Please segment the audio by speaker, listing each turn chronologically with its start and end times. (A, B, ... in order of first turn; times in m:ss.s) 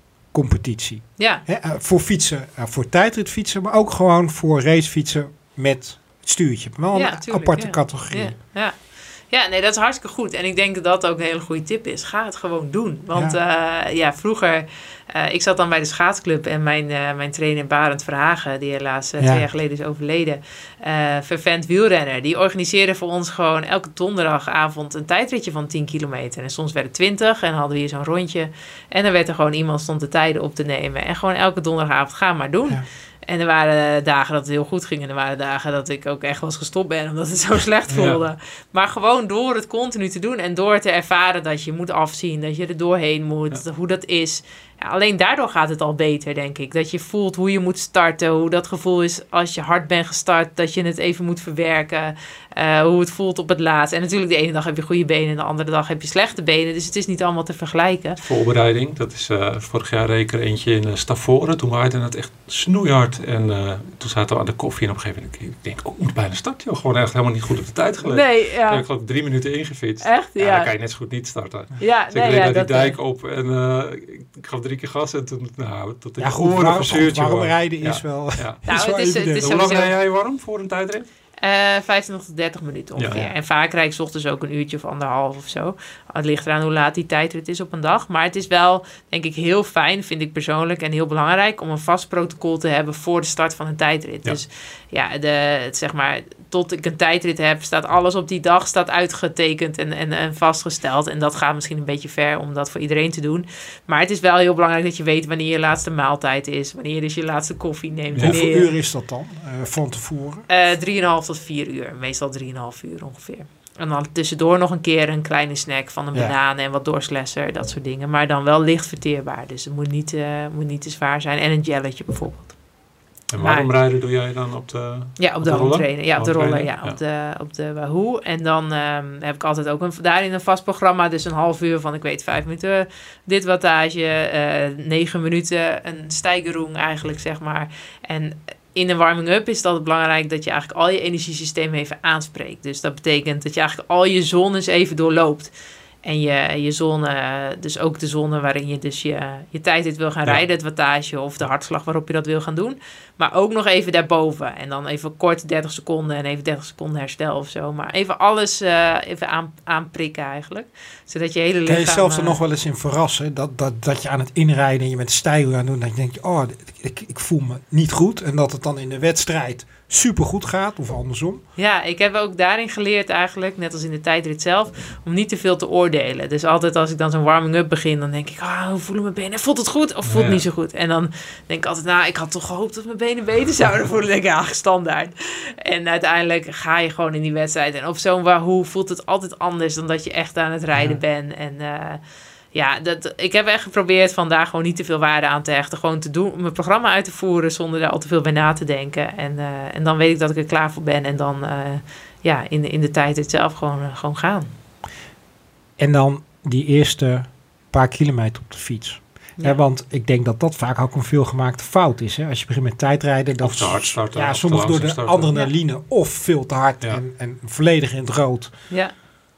0:00.3-0:08.4 A
0:01.2-0:01.4 B
0:06.9-0:58.2 B
0:13.1-0:13.4 A
0:19.2-0:19.4 A
0:37.9-0:38.2 C
0:58.2-1:18.6 C
1:08.0-1:08.8 B
1:10.0-1:10.7 B
1:11.8-1:13.0 B
1:16.2-1:19.7 A
1:18.7-1:19.9 B
1:19.3-1:21.1 C
1:21.4-1:48.7 B
1:23.0-1:23.2 C
1:48.2-1:50.5 A
1:50.5-2:02.6 B
2:03.3-2:07.0 C
2:03.4-2:03.8 B
2:05.2-2:25.5 B
2:26.0-2:42.4 B
2:41.7-2:51.4 A
2:51.6-3:12.0 B
3:00.0-3:00.4 C
3:12.5-3:24.5 B
3:25.8-3:38.7 A
3:29.4-3:29.6 B
3:33.4-3:35.3 C
3:38.7-3:39.0 B